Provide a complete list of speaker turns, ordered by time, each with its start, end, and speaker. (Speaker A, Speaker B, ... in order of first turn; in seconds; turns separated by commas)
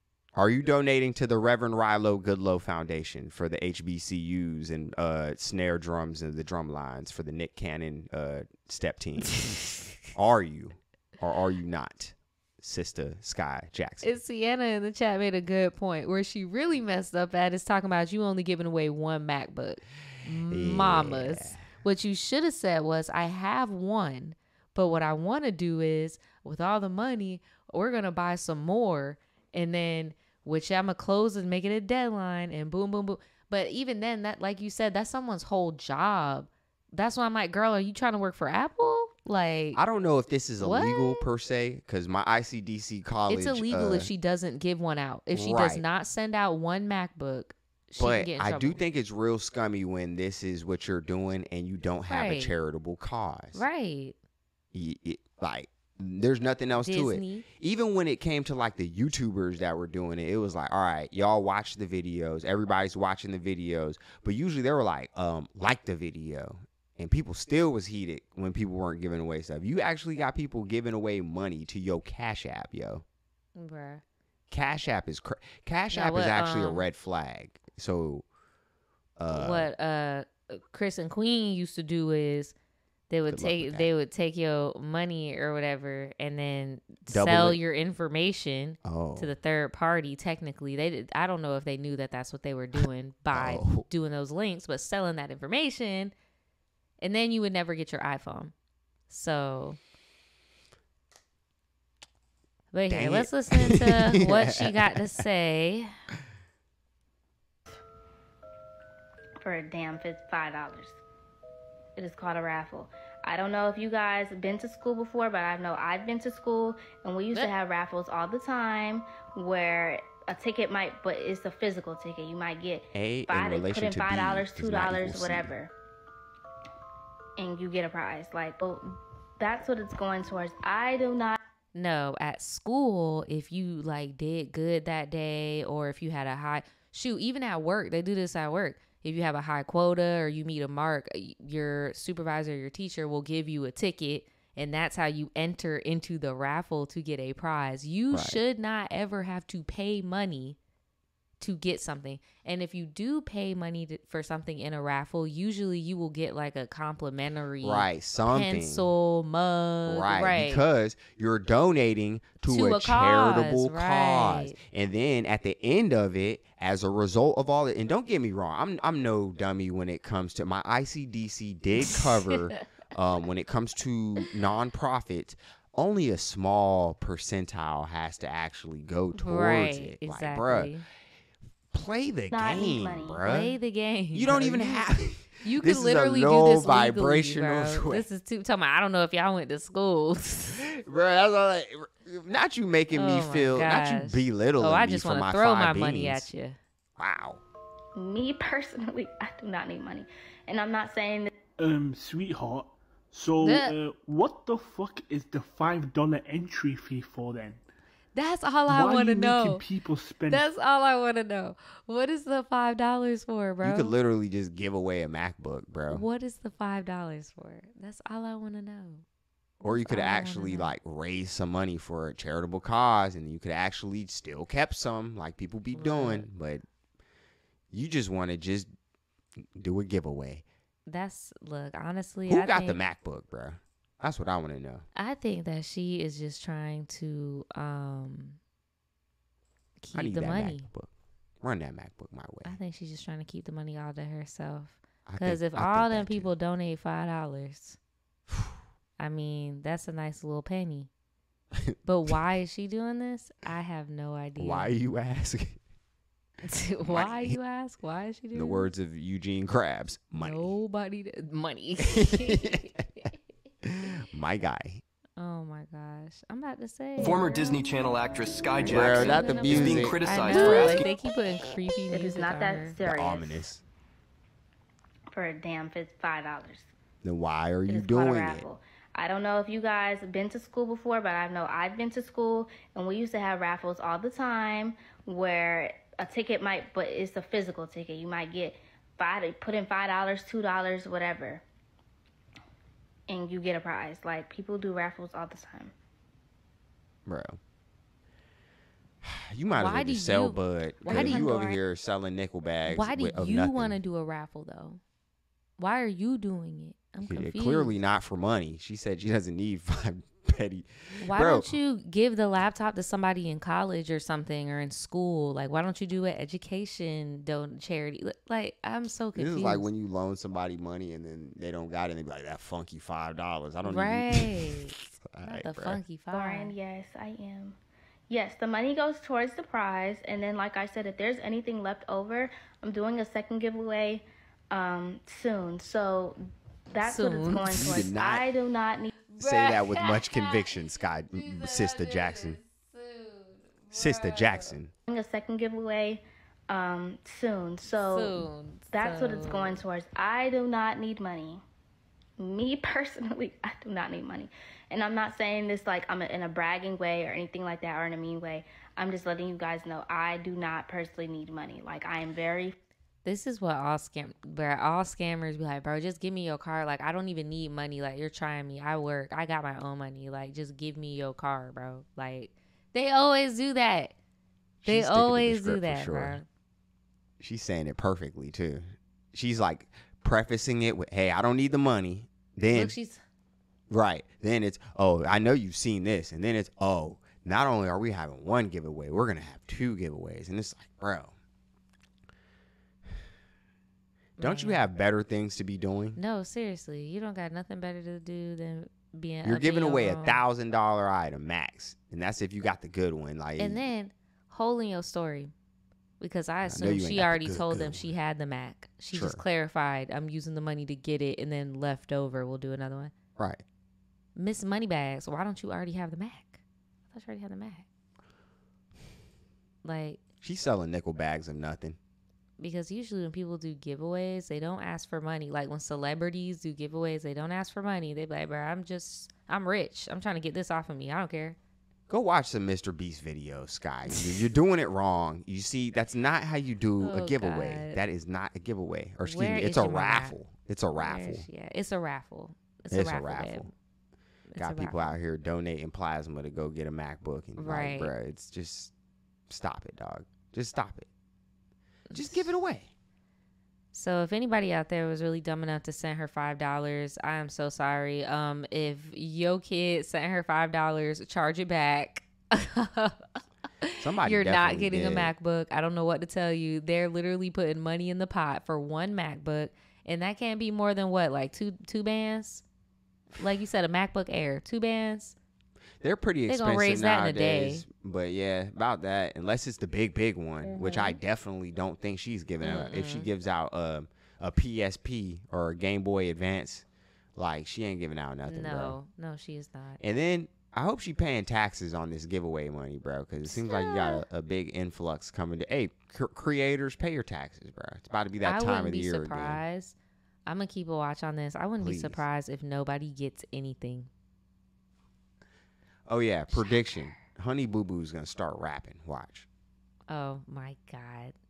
Speaker A: 0.3-9.3, Speaker B: 9.4-9.7, Speaker A: 10.1-14.1, Speaker B: 14.0-39.8, Speaker A: 20.5-21.6, Speaker A: 39.7-44.1, Speaker B: 40.6-41.3, Speaker B: 43.3-48.8, Speaker A: 45.3-45.8, Speaker A: 48.0-53.6, Speaker B: 52.1-52.5, Speaker B: 53.5-54.1, Speaker A: 54.7-73.0, Speaker B: 56.8-57.4, Speaker B: 73.5-74.0, Speaker A: 74.5-78.2, Speaker B: 75.9-76.9, Speaker A: 79.2-79.7, Speaker B: 79.3-82.5, Speaker B: 83.1-96.1, Speaker A: 83.3-83.9, Speaker A: 87.1-87.6, Speaker A: 88.8-89.3, Speaker A: 92.8-93.8, Speaker B: 97.0-98.5, Speaker B: 99.1-99.8, Speaker B: 102.7-105.9, Speaker A: 102.9-104.9, Speaker C: 109.4-111.0, Speaker C: 112.0-125.7, Speaker A: 122.9-125.5, Speaker C: 127.4-128.8, Speaker C: 129.4-131.4, Speaker B: 131.7-150.6, Speaker A: 148.1-148.4, Speaker B: 151.4-160.7, Speaker A: 157.6-158.9, Speaker A: 159.9-180.7, Speaker B: 162.4-164.6, Speaker B: 171.8-172.3, Speaker B: 179.1-180.8, Speaker A: 181.7-183.6, Speaker C: 182.3-183.2, Speaker B: 183.2-190.6, Speaker A: 184.1-188.1, Speaker A: 190.8-196.3, Speaker B: 192.9-196.6, Speaker A: 197.0-197.4, Speaker C: 197.9-201.3, Speaker D: 201.6-207.6, Speaker B: 203.4-203.7, Speaker B: 208.1-209.6, Speaker D: 208.7-210.5, Speaker B: 210.3-213.9, Speaker A: 213.6-216.0, Speaker B: 215.9-219.0, Speaker B: 219.6-220.7, Speaker A: 219.6-226.6, Speaker B: 225.7-226.3, Speaker A: 227.7-228.7, Speaker A: 229.6-230.4, Speaker B: 230.9-232.8, Speaker A: 232.3-234.8, Speaker B: 234.9-238.4, Speaker B: 239.8-240.7, Speaker A: 239.9-240.9, Speaker A: 241.4-242.6, Speaker B: 242.4-247.8, Speaker A: 245.1-246.3, Speaker B: 249.0-250.9, Speaker B: 251.8-254.7, Speaker A: 254.4-255.6, Speaker B: 256.5-258.7, Speaker A: 256.8-257.4, Speaker A: 258.3-260.5, Speaker B: 260.2-262.7, Speaker A: 262.0-262.8, Speaker A: 263.7-264.8, Speaker B: 265.2-267.5, Speaker E: 267.0-270.9, Speaker A: 268.6-270.5, Speaker B: 268.6-272.8, Speaker C: 271.9-273.4, Speaker A: 272.9-273.6, Speaker C: 275.1-276.7, Speaker A: 277.0-278.4, Speaker C: 277.7-291.4, Speaker C: 293.1-295.7, Speaker A: 297.1-297.4, Speaker A: 299.0-303.8, Speaker B: 299.5-301.6, Speaker C: 300.9-301.4, Speaker B: 302.6-304.8, Speaker B: 305.6-307.8, Speaker A: 307.0-311.6, Speaker B: 311.0-319.7, Speaker A: 319.1-325.8, Speaker B: 323.6-326.5, Speaker C: 326.1-327.6, Speaker C: 328.1-336.2, Speaker C: 336.7-338.9, Speaker B: 336.8-337.9, Speaker A: 337.4-338.2, Speaker B: 339.1-344.6, Speaker A: 339.2-342.4, Speaker A: 343.7-344.7, Speaker C: 344.9-351.4, Speaker B: 347.6-349.6, Speaker C: 352.2-362.5, Speaker B: 363.0-373.9, Speaker A: 374.6-376.2, Speaker B: 374.6-376.2, Speaker A: 377.2-382.8, Speaker B: 382.5-383.0, Speaker A: 383.7-391.1, Speaker B: 394.2-394.7, Speaker A: 394.2-396.0, Speaker B: 395.9-400.2, Speaker A: 399.2-403.6, Speaker B: 403.4-405.3, Speaker B: 406.0-412.9, Speaker A: 406.4-407.8, Speaker A: 408.9-409.2, Speaker A: 413.2-413.4, Speaker B: 414.1-417.6, Speaker B: 419.6-420.0, Speaker A: 420.2-421.8, Speaker B: 422.4-431.4, Speaker A: 431.9-441.3, Speaker B: 433.9-434.2, Speaker B: 436.8-437.8, Speaker B: 439.0-440.2, Speaker B: 440.8-443.5, Speaker A: 442.7-443.5, Speaker B: 444.3-444.9, Speaker A: 444.4-448.7, Speaker B: 447.4-447.9, Speaker A: 449.3-450.9, Speaker B: 451.9-452.3, Speaker A: 451.9-452.7, Speaker B: 453.7-463.1, Speaker B: 463.6-472.4, Speaker A: 463.8-465.1, Speaker B: 473.1-475.1, Speaker A: 475.8-488.8, Speaker B: 476.2-477.6, Speaker B: 480.4-481.0, Speaker B: 482.4-483.1, Speaker B: 488.3-489.8, Speaker A: 489.8-499.4, Speaker B: 493.2-494.0, Speaker B: 498.2-503.9, Speaker A: 501.6-502.0, Speaker A: 505.9-509.3, Speaker B: 506.3-507.0, Speaker B: 509.9-511.1